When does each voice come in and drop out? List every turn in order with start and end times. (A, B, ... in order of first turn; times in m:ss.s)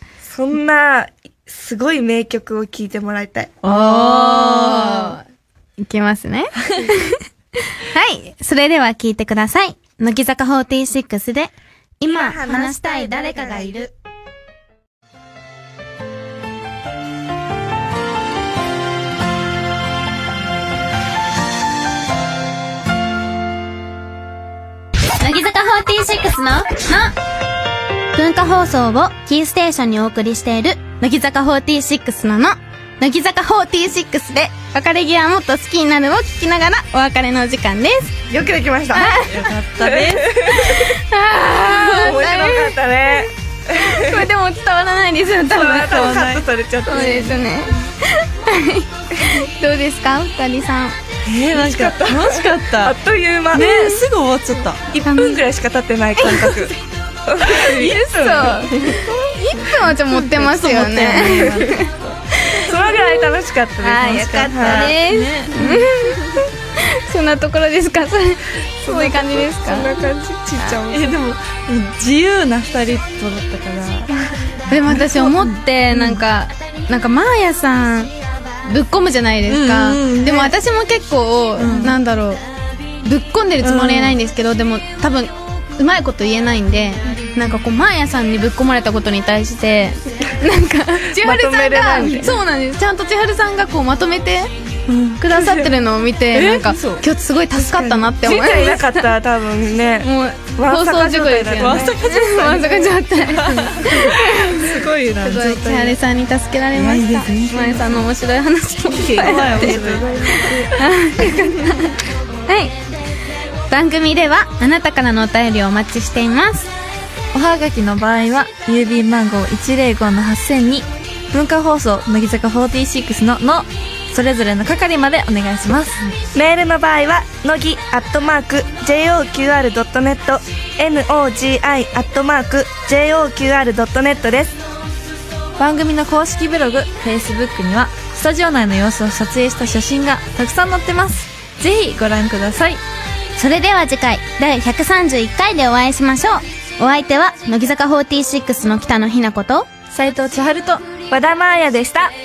0:00.2-0:03.6 A
0:03.6-0:05.2 B
0:03.6-0:05.2 C
0:05.8-0:13.9 C
0:12.1-0:13.9 A
0:25.2-0:27.2 C
0:28.1-0:38.2 C
0:38.3-0:39.1 A
0:38.9-0:39.5 C
0:39.2-0:40.4 B
0:39.8-0:41.0 A
0:40.5-0:42.8 C
0:41.6-0:44.3 A
0:43.7-0:46.0 C
0:45.5-0:47.4 A
0:45.7-0:46.4 B
0:46.9-0:51.0 C
0:51.2-0:53.0 B
0:51.5-0:53.6 A
0:53.5-0:54.9 B
0:53.5-0:54.0 C
0:54.9-0:59.0 A
0:55.0-0:55.4 C
0:56.2-0:56.7 C
0:57.7-1:03.2 C
0:58.7-1:02.8 B
1:01.2-1:01.6 A
1:02.5-1:05.0 A
1:03.8-1:10.0 C
1:04.1-1:06.5 B
1:08.8-1:11.2 A
1:10.9-1:14.2 B
1:14.7-1:18.1 C
1:14.8-1:16.2 B
1:18.6-1:22.4 C
1:19.5-1:20.5 B
1:21.6-1:22.0 B
1:23.0-1:34.5 C
1:23.6-1:24.2 B
1:31.2-1:32.3 A
1:32.0-1:32.3 B
1:34.9-1:35.3 B
1:35.2-1:39.1 C
1:35.4-1:35.7 A
1:36.3-1:38.2 B
1:38.2-1:42.8 A
1:40.0-1:44.7 C
1:41.6-1:42.7 B
1:43.3-1:46.0 B
1:45.2-1:49.8 C
1:46.7-1:48.1 B
1:48.9-1:50.7 A
1:49.2-1:50.7 B
1:50.7-1:52.8 C
1:51.4-1:51.7 B
1:53.7-1:56.7 C
1:57.3-2:06.1 B
2:06.3-2:14.6 A
2:15.6-2:22.8 B
2:23.4-2:29.7 C
2:29.9-2:30.9 B
2:31.1-2:32.1 A